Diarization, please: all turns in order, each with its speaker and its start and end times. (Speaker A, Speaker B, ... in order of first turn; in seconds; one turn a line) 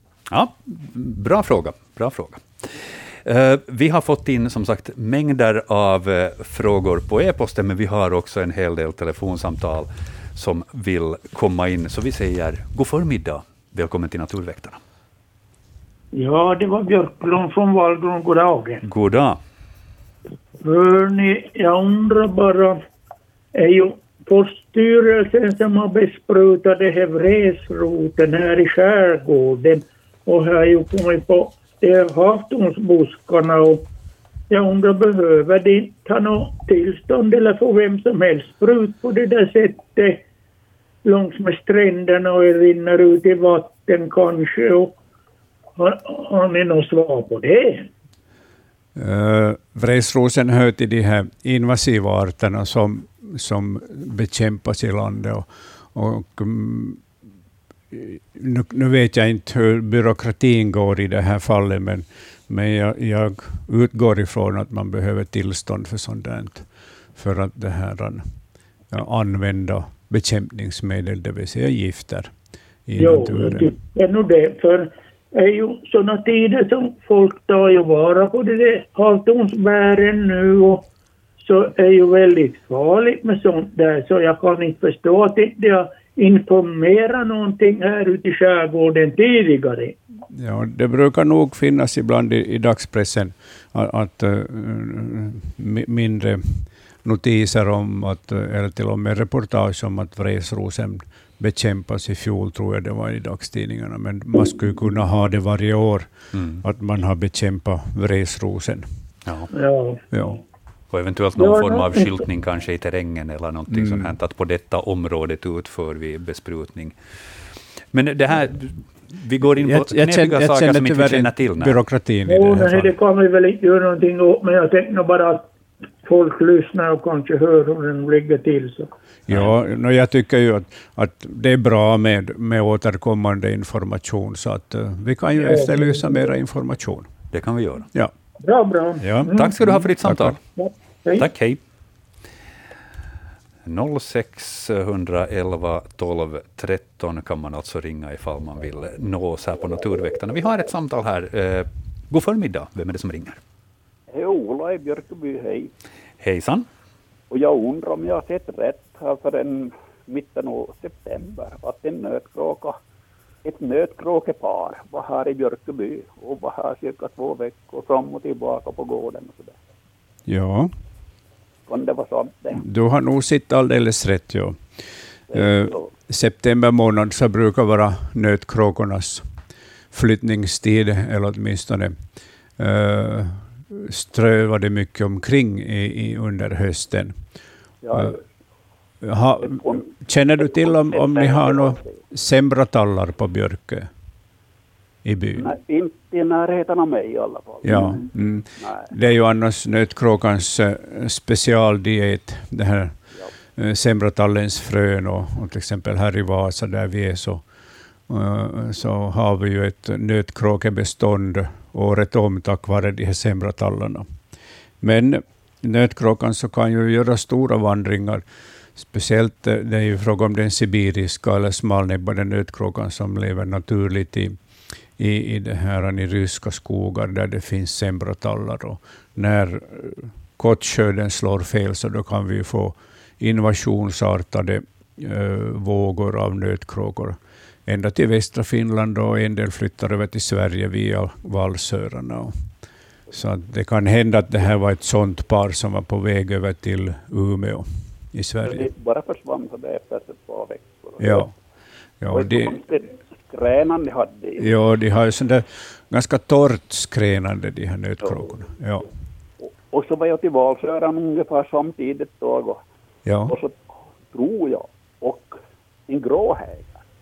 Speaker A: 0.3-14.8
Speaker B: 16.1-18.8
Speaker A: 18.8-19.4
Speaker B: 20.6-22.8
Speaker B: 23.6-33.9
Speaker B: 34.5-40.2
Speaker B: 41.0-45.0
Speaker B: 45.8-47.9
Speaker C: 49.0-57.0
Speaker C: 57.9-68.3
Speaker C: 68.9-72.3
Speaker C: 72.9-73.7
Speaker B: 73.0-80.9
Speaker B: 81.4-90.0
Speaker C: 90.3-108.8
Speaker A: 106.3-106.6
Speaker B: 109.5-110.0
Speaker C: 110.1-110.4
Speaker A: 110.9-116.9
Speaker B: 111.3-112.2
Speaker C: 113.7-114.1
Speaker A: 117.9-121.8
Speaker C: 119.6-122.9
Speaker B: 122.3-125.5
Speaker B: 126.0-128.9
Speaker C: 129.3-137.1
Speaker B: 135.4-136.2
Speaker A: 137.3-137.9
Speaker B: 138.4-139.6
Speaker C: 139.0-140.4
Speaker A: 139.3-140.4
Speaker B: 140.6-141.3
Speaker A: 141.2-141.6
Speaker A: 143.7-153.4
Speaker D: 154.1-155.7
Speaker A: 156.2-156.7
Speaker D: 157.3-162.8
Speaker D: 163.4-169.6
Speaker C: 170.3-170.7
Speaker D: 171.7-172.6
Speaker C: 172.5-174.6
Speaker C: 175.3-179.3
Speaker D: 175.3-175.9
Speaker C: 179.9-181.9
Speaker C: 182.6-187.2
Speaker D: 187.8-188.2
Speaker C: 187.9-188.2
Speaker C: 189.0-193.9
Speaker D: 189.4-189.8
Speaker D: 190.7-192.0
Speaker C: 195.0-195.5
Speaker D: 195.3-198.1
Speaker C: 197.6-203.0
Speaker D: 198.6-198.8
Speaker C: 203.6-207.4
Speaker C: 208.1-214.1
Speaker C: 214.8-218.2
Speaker C: 218.8-224.4
Speaker C: 225.0-242.3
Speaker C: 243.1-248.7
Speaker D: 248.4-251.3
Speaker C: 251.0-251.3
Speaker C: 252.0-252.6
Speaker D: 252.1-254.5
Speaker C: 254.4-258.9
Speaker D: 259.4-262.6
Speaker C: 263.0-263.4
Speaker D: 263.3-263.5
Speaker D: 264.1-266.8